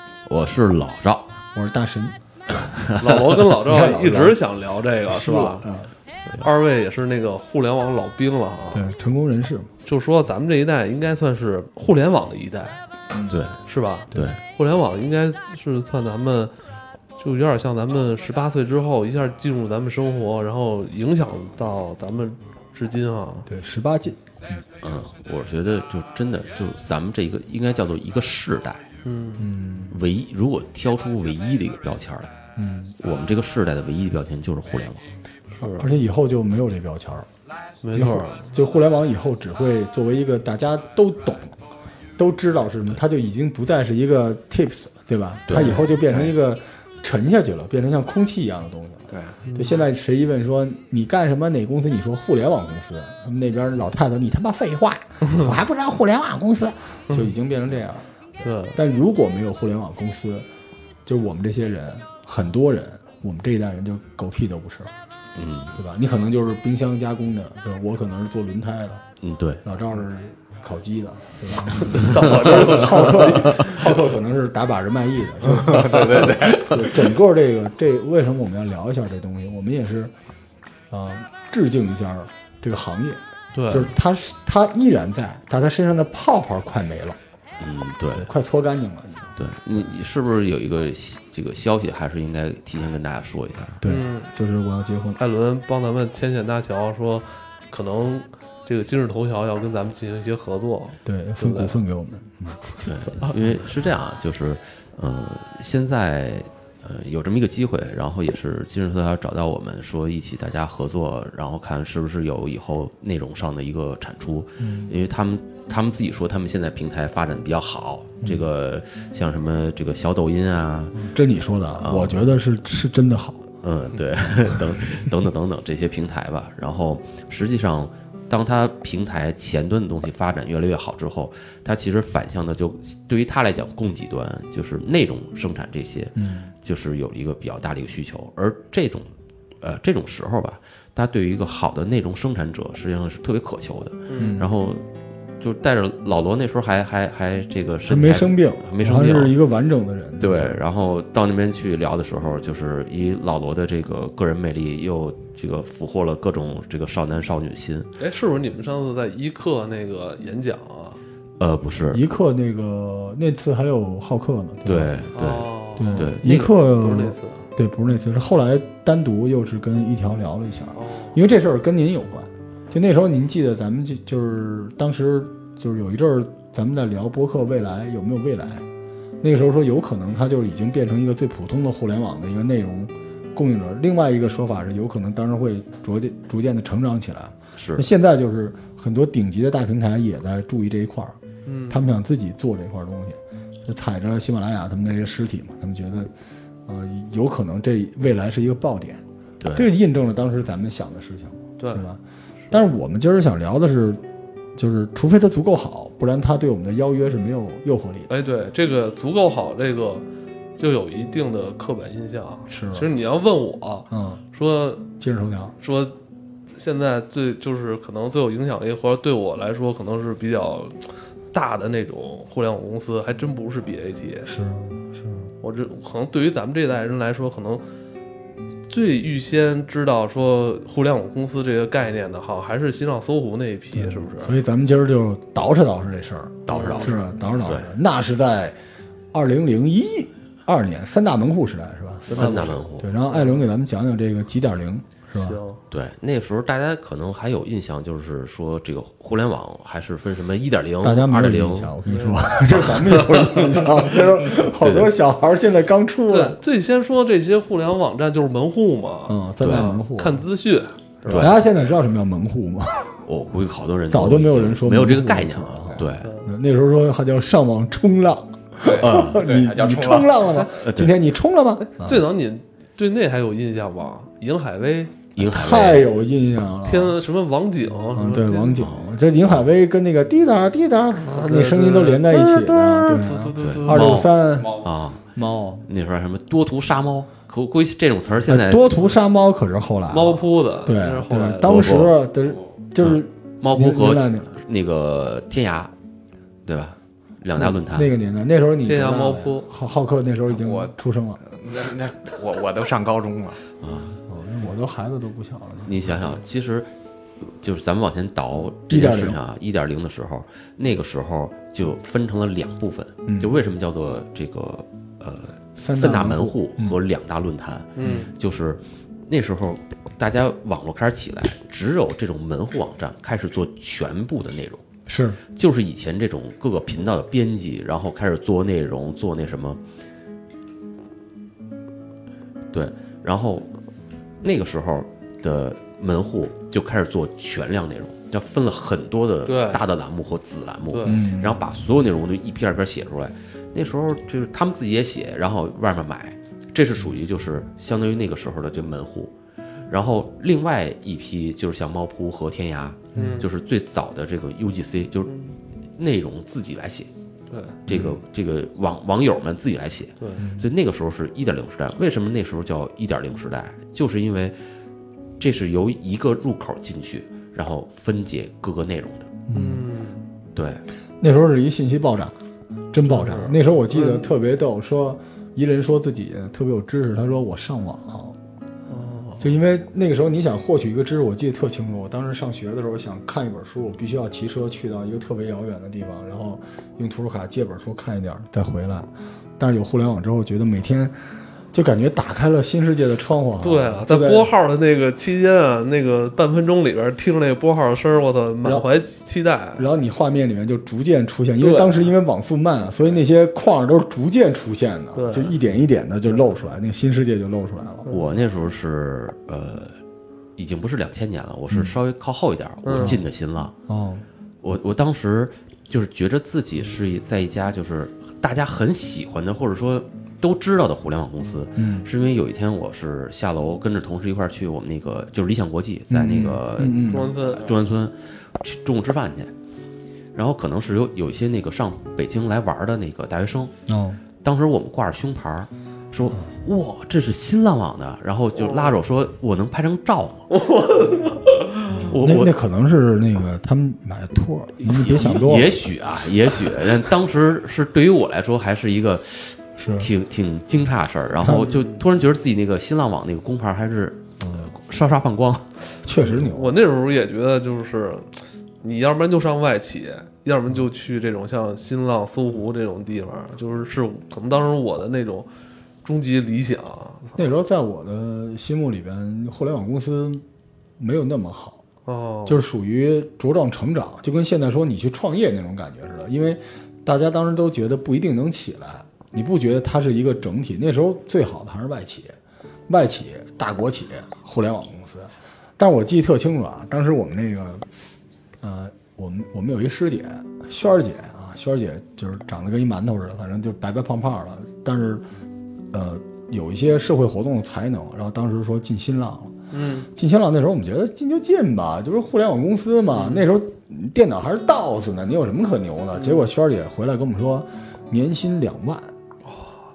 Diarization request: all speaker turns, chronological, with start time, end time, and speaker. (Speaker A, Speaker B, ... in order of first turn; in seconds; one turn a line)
Speaker A: 0.3-1.3
Speaker B: 1.6-2.1
Speaker A: 2.6-3.4
Speaker C: 3.0-5.7
Speaker B: 3.6-4.4
Speaker B: 5.1-5.9
Speaker C: 6.4-8.8
Speaker B: 8.7-9.7
Speaker C: 9.8-12.8
Speaker A: 13.3-13.6
Speaker C: 13.7-16.5
Speaker C: 17.2-23.5
Speaker B: 23.5-24.6
Speaker A: 24.8-28.9
Speaker C: 29.0-29.5
Speaker B: 29.4-30.0
Speaker A: 29.9-32.4
Speaker B: 32.6-33.0
Speaker A: 33.0-35.0
Speaker C: 35.6-35.9
Speaker B: 35.8-37.3
Speaker C: 37.8-38.5
Speaker B: 37.9-41.6
Speaker B: 42.2-60.5
Speaker A: 45.5-46.3
Speaker D: 49.1-49.4
Speaker C: 49.5-49.8
Speaker C: 58.4-58.8
Speaker B: 61.1-64.9
Speaker A: 65.3-65.8
Speaker B: 65.8-69.0
Speaker A: 69.2-69.6
Speaker B: 69.6-80.1
Speaker C: 71.8-74.0
Speaker A: 72.0-72.5
Speaker D: 75.6-77.0
Speaker C: 76.2-76.5
Speaker B: 80.9-87.2
Speaker C: 83.5-83.9
Speaker A: 87.6-88.3
Speaker B: 88.2-89.4
Speaker A: 89.4-93.8
Speaker B: 93.8-95.2
Speaker C: 93.9-94.3
Speaker C: 95.2-101.8
Speaker B: 101.0-102.6
Speaker A: 102.8-121.1
Speaker B: 114.6-114.9
Speaker B: 121.0-123.5
Speaker A: 121.8-122.3
Speaker A: 123.6-139.1
Speaker B: 136.2-136.5
Speaker A: 139.6-144.8
Speaker C: 144.1-144.4
Speaker B: 144.2-144.5
Speaker A: 145.4-149.3
Speaker B: 147.9-150.5
Speaker A: 150.2-157.9
Speaker C: 158.0-161.0
Speaker A: 161.4-162.0
Speaker B: 161.9-164.9
Speaker A: 164.7-166.5
Speaker C: 165.2-166.1
Speaker B: 165.8-178.7
Speaker C: 166.6-167.4
Speaker C: 170.8-171.2
Speaker B: 179.2-191.2
Speaker A: 187.6-187.9
Speaker C: 191.5-191.9
Speaker B: 191.7-196.1
Speaker B: 196.7-199.0
Speaker A: 199.4-199.7
Speaker B: 199.5-202.0
Speaker C: 201.6-201.8
Speaker B: 202.5-204.0
Speaker B: 204.6-208.1
Speaker C: 208.1-210.0
Speaker C: 210.6-214.9
Speaker B: 212.5-212.9
Speaker B: 213.9-214.2
Speaker B: 215.0-215.6
Speaker C: 215.6-215.9
Speaker C: 216.5-224.3
Speaker B: 224.2-225.3
Speaker C: 225.4-227.6
Speaker C: 228.7-234.4
Speaker B: 233.8-238.6
Speaker A: 236.4-237.7
Speaker C: 236.5-237.0
Speaker B: 239.1-245.4
Speaker C: 242.0-243.4
Speaker A: 242.1-242.9
Speaker C: 245.2-245.6
Speaker A: 245.7-251.7
Speaker B: 250.8-256.4
Speaker C: 251.9-252.3
Speaker A: 254.6-254.9
Speaker C: 256.1-261.3
Speaker B: 259.1-260.2
Speaker A: 259.4-259.7
Speaker A: 261.1-261.4
Speaker B: 261.1-263.0
Speaker A: 263.1-266.1
Speaker B: 263.9-272.1
Speaker C: 266.0-266.3
Speaker D: 268.6-270.4
Speaker A: 268.8-269.2
Speaker A: 270.4-270.9
Speaker C: 271.6-274.9
Speaker A: 275.2-275.9
Speaker B: 275.2-277.0
Speaker C: 276.6-278.7
Speaker B: 277.9-285.7
Speaker A: 278.6-278.9
Speaker C: 281.1-284.1
Speaker A: 283.4-285.1
Speaker A: 285.7-288.7
Speaker B: 288.3-294.4
Speaker C: 289.9-291.9
Speaker A: 291.5-291.9
Speaker A: 292.8-295.7
Speaker A: 296.5-297.9
Speaker B: 297.4-301.2
Speaker C: 298.6-299.5
Speaker D: 300.3-300.7
Speaker D: 301.2-303.4
Speaker A: 303.6-304.0
Speaker B: 304.1-305.7
Speaker A: 305.6-324.6
Speaker B: 308.7-309.2
Speaker B: 313.1-313.4
Speaker B: 315.6-316.8
Speaker C: 317.8-318.1
Speaker B: 324.9-325.2
Speaker A: 325.3-329.6
Speaker A: 332.5-333.5
Speaker A: 334.2-349.1
Speaker C: 339.3-339.6
Speaker C: 340.7-341.0
Speaker B: 340.9-341.4
Speaker A: 349.7-355.1
Speaker B: 352.9-353.2
Speaker C: 353.0-353.2
Speaker C: 355.1-355.3
Speaker A: 355.8-356.9
Speaker C: 357.3-357.6
Speaker A: 357.7-364.4
Speaker B: 357.7-358.0
Speaker B: 360.2-360.5
Speaker A: 365.2-369.1
Speaker B: 369.3-369.7
Speaker C: 369.3-370.1
Speaker A: 370.4-370.6
Speaker B: 371.0-372.1
Speaker B: 372.7-378.2
Speaker C: 372.9-374.1
Speaker C: 378.7-379.4
Speaker B: 379.2-391.0
Speaker B: 391.5-394.3
Speaker C: 393.4-399.7
Speaker B: 399.6-407.9
Speaker C: 401.4-401.9
Speaker C: 404.9-405.4
Speaker C: 407.9-408.1
Speaker A: 407.9-409.8
Speaker A: 410.4-413.6
Speaker C: 412.6-413.0
Speaker B: 413.7-414.1
Speaker A: 414.4-429.3
Speaker B: 421.6-421.9
Speaker B: 425.9-427.2
Speaker C: 426.8-427.5
Speaker A: 430.1-433.5
Speaker B: 433.7-434.0
Speaker A: 434.2-440.3
Speaker C: 438.4-438.8
Speaker C: 440.3-441.9
Speaker B: 441.8-445.6
Speaker A: 441.9-442.4
Speaker A: 444.6-455.5
Speaker B: 449.6-449.9
Speaker B: 451.2-451.6
Speaker C: 451.4-451.8
Speaker B: 454.2-454.5
Speaker B: 455.8-456.6
Speaker C: 456.1-465.3
Speaker C: 465.9-467.2
Speaker B: 467.2-470.2
Speaker B: 470.8-471.6
Speaker C: 471.9-472.4
Speaker B: 472.3-482.1
Speaker B: 482.7-487.7
Speaker B: 488.4-495.0
Speaker B: 495.7-499.3
Speaker C: 499.5-499.9
Speaker B: 499.9-508.9
Speaker C: 502.9-503.3
Speaker C: 506.0-506.3
Speaker C: 509.3-509.7